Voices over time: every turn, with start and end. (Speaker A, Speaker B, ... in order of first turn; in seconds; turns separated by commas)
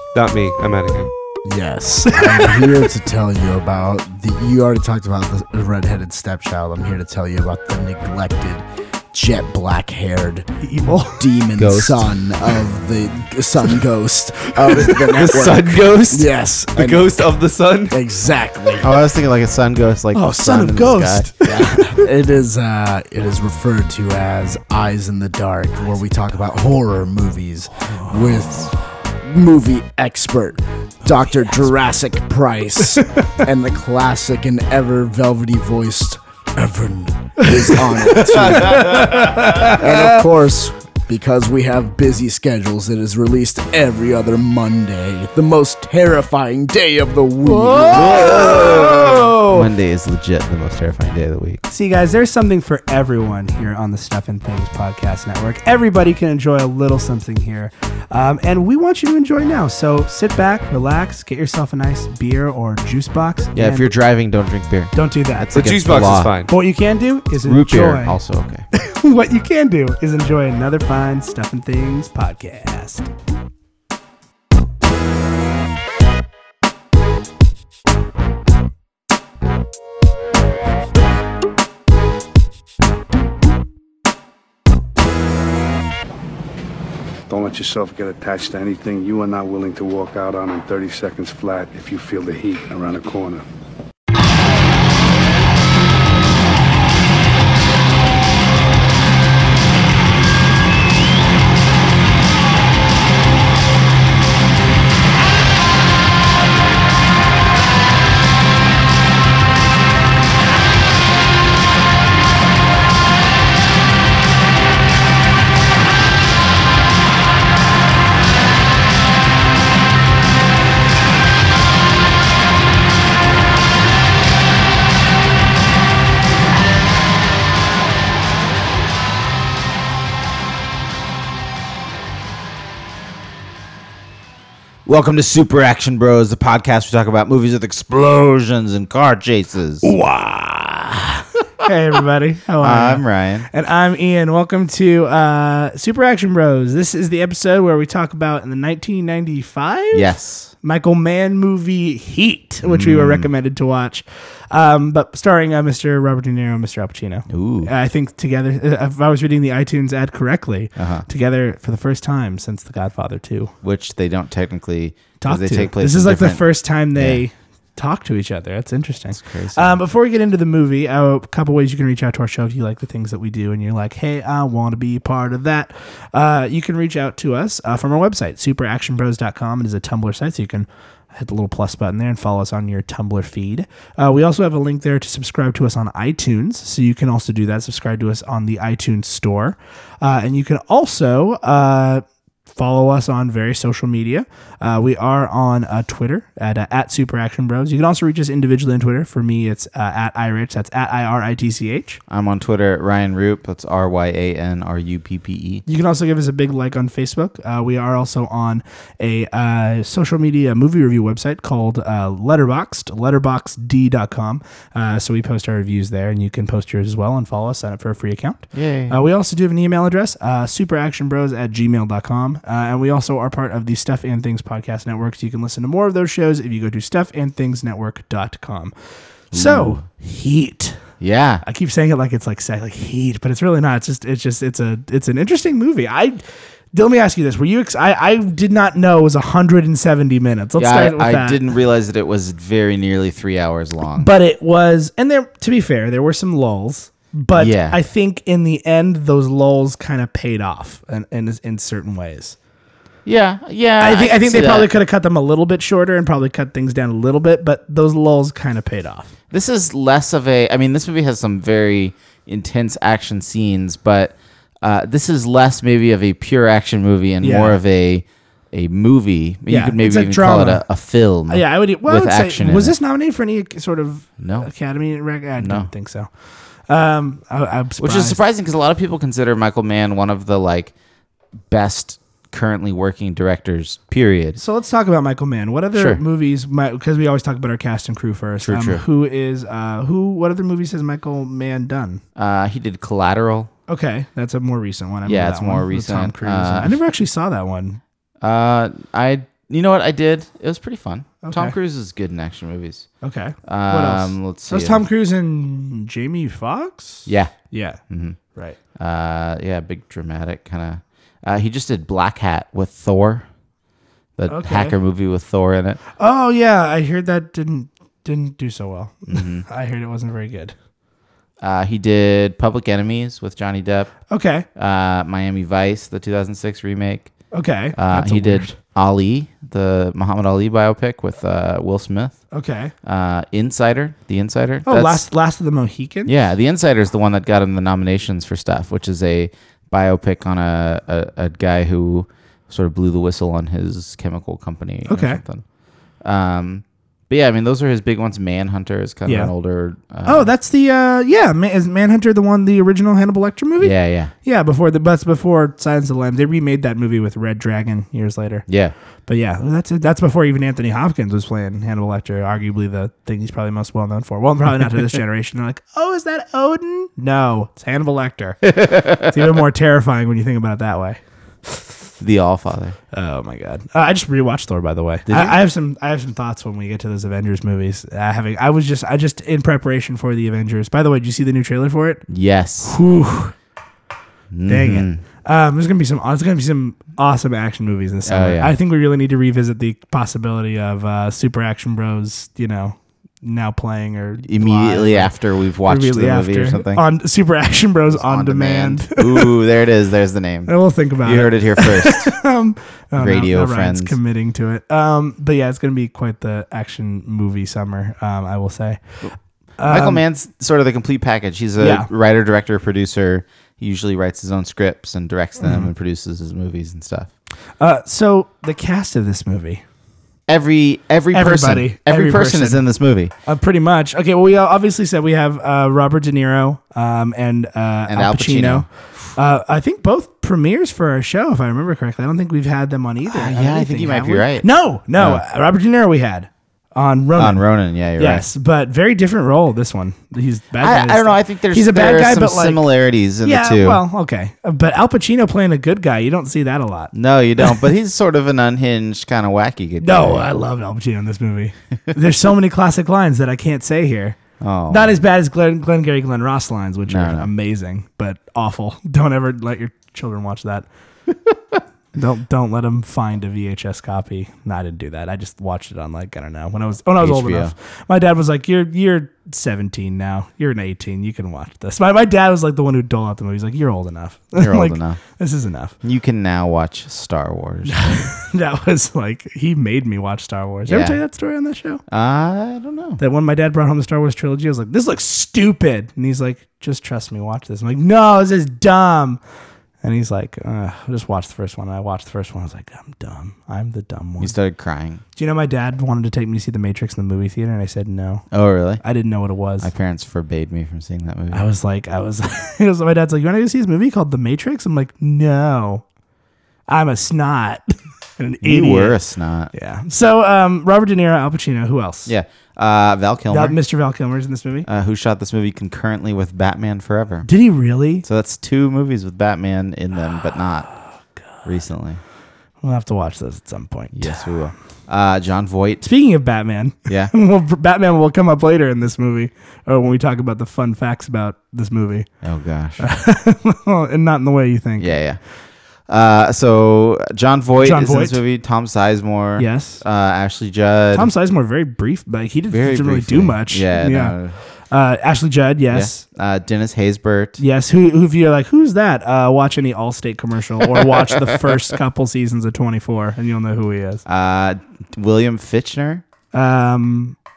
Speaker A: 0.1-1.1, Speaker B: 1.4-10.5, Speaker C: 2.2-2.5, Speaker C: 10.6-11.3, Speaker B: 11.2-17.3, Speaker D: 11.6-12.1, Speaker A: 14.7-18.0, Speaker B: 17.9-18.9, Speaker D: 18.8-21.6, Speaker C: 20.1-22.0, Speaker B: 21.5-48.6, Speaker C: 37.4-40.2, Speaker C: 47.4-49.7, Speaker D: 47.9-51.6, Speaker C: 51.7-63.9, Speaker D: 63.5-66.3, Speaker C: 64.9-65.8, Speaker A: 65.5-66.5, Speaker C: 66.5-68.2, Speaker D: 67.4-68.7, Speaker C: 68.7-73.1, Speaker E: 87.3-93.4, Speaker D: 134.9-139.9, Speaker C: 139.8-150.1, Speaker D: 142.6-143.5, Speaker D: 149.9-150.5, Speaker C: 150.6-163.5, Speaker D: 152.7-153.3, Speaker D: 157.3-157.7, Speaker D: 160.8-161.1, Speaker D: 163.6-166.4, Speaker C: 165.2-202.0, Speaker D: 167.0-167.2, Speaker D: 169.2-169.8, Speaker D: 202.1-205.7, Speaker C: 205.7-228.7, Speaker D: 218.5-219.0, Speaker C: 229.3-230.8, Speaker D: 229.3-229.8, Speaker D: 231.0-231.4, Speaker C: 231.4-236.2, Speaker C: 236.7-241.4, Speaker D: 240.6-244.1, Speaker C: 244.0-252.4, Speaker D: 247.3-247.8, Speaker D: 253.1-254.7, Speaker C: 253.8-259.1, Speaker D: 259.3-272.8, Speaker C: 267.2-267.6, Speaker C: 269.5-270.6, Speaker C: 271.3-278.2, Speaker D: 274.2-274.5, Speaker D: 275.4-275.7, Speaker D: 277.8-280.7, Speaker D: 281.5-284.4, Speaker C: 284.4-292.0, Speaker D: 285.8-286.0, Speaker D: 288.4-288.8, Speaker D: 292.2-293.5, Speaker C: 293.7-297.8, Speaker D: 295.1-296.8, Speaker D: 298.2-302.9, Speaker C: 301.2-301.6, Speaker C: 303.0-307.8, Speaker D: 303.4-304.9, Speaker D: 307.1-307.3, Speaker D: 307.9-308.2, Speaker C: 308.3-308.6, Speaker D: 308.8-313.3, Speaker D: 314.2-315.8, Speaker C: 314.3-314.8, Speaker C: 316.0-320.6, Speaker D: 319.1-319.5, Speaker D: 321.4-323.9, Speaker C: 324.1-324.5, Speaker D: 324.6-327.1, Speaker C: 327.3-328.6, Speaker D: 327.8-332.2, Speaker C: 332.3-332.7, Speaker D: 332.8-335.0, Speaker C: 334.7-336.1, Speaker D: 336.1-345.4, Speaker C: 344.9-345.2, Speaker D: 346.0-350.3, Speaker C: 349.1-349.3, Speaker C: 350.0-358.5, Speaker D: 353.6-354.1, Speaker D: 358.5-358.7, Speaker C: 359.1-371.7, Speaker D: 372.0-372.8, Speaker C: 372.9-382.1, Speaker D: 375.1-375.4, Speaker D: 382.1-382.8, Speaker C: 382.6-383.4, Speaker D: 384.3-385.0, Speaker C: 384.5-395.1, Speaker D: 388.1-388.6, Speaker D: 394.2-396.9, Speaker C: 395.7-399.4, Speaker D: 397.9-402.2, Speaker C: 400.5-410.0, Speaker D: 402.9-404.0, Speaker D: 409.7-417.1, Speaker C: 411.6-411.9, Speaker C: 415.4-415.7, Speaker C: 417.6-419.6, Speaker D: 420.3-423.1, Speaker C: 421.1-422.6, Speaker C: 423.3-437.5, Speaker D: 427.9-428.7, Speaker D: 433.1-434.5, Speaker D: 435.0-435.2, Speaker D: 437.2-438.2, Speaker C: 438.0-442.6, Speaker D: 440.6-443.8, Speaker C: 443.2-447.6, Speaker D: 446.9-450.3, Speaker C: 449.8-454.2, Speaker D: 454.4-455.0, Speaker C: 454.7-460.7, Speaker D: 456.9-457.3, Speaker C: 461.9-475.8, Speaker D: 467.0-467.5, Speaker D: 474.4-475.0, Speaker D: 475.8-478.1, Speaker C: 477.7-481.8, Speaker D: 480.7-481.0, Speaker D: 481.9-483.0, Speaker C: 483.0-489.2, Speaker C: 489.8-494.4, Speaker D: 494.2-495.0, Speaker C: 495.2-498.3, Speaker D: 498.3-498.8, Speaker C: 498.8-499.7, Speaker D: 499.6-501.4, Speaker C: 501.3-505.8, Speaker C: 506.7-509.0, Speaker D: 508.4-509.5, Speaker C: 509.5-512.1, Speaker D: 512.1-513.6, Speaker C: 513.3-514.7, Speaker D: 514.7-517.3, Speaker C: 517.2-518.0, Speaker D: 518.0-520.7, Speaker D: 521.5-522.0, Speaker C: 522.6-524.5, Speaker D: 523.9-525.9, Speaker C: 525.8-532.1, Speaker D: 526.9-527.1, Speaker D: 532.2-532.9, Speaker C: 532.8-535.0, Speaker D: 534.8-535.2, Speaker D: 535.9-541.1, Speaker C: 537.6-538.2, Speaker C: 539.4-539.8, Speaker C: 540.9-544.2, Speaker D: 542.5-544.4, Speaker C: 544.7-546.0, Speaker D: 545.7-547.4, Speaker C: 547.4-554.0, Speaker D: 554.1-556.0, Speaker C: 556.3-557.2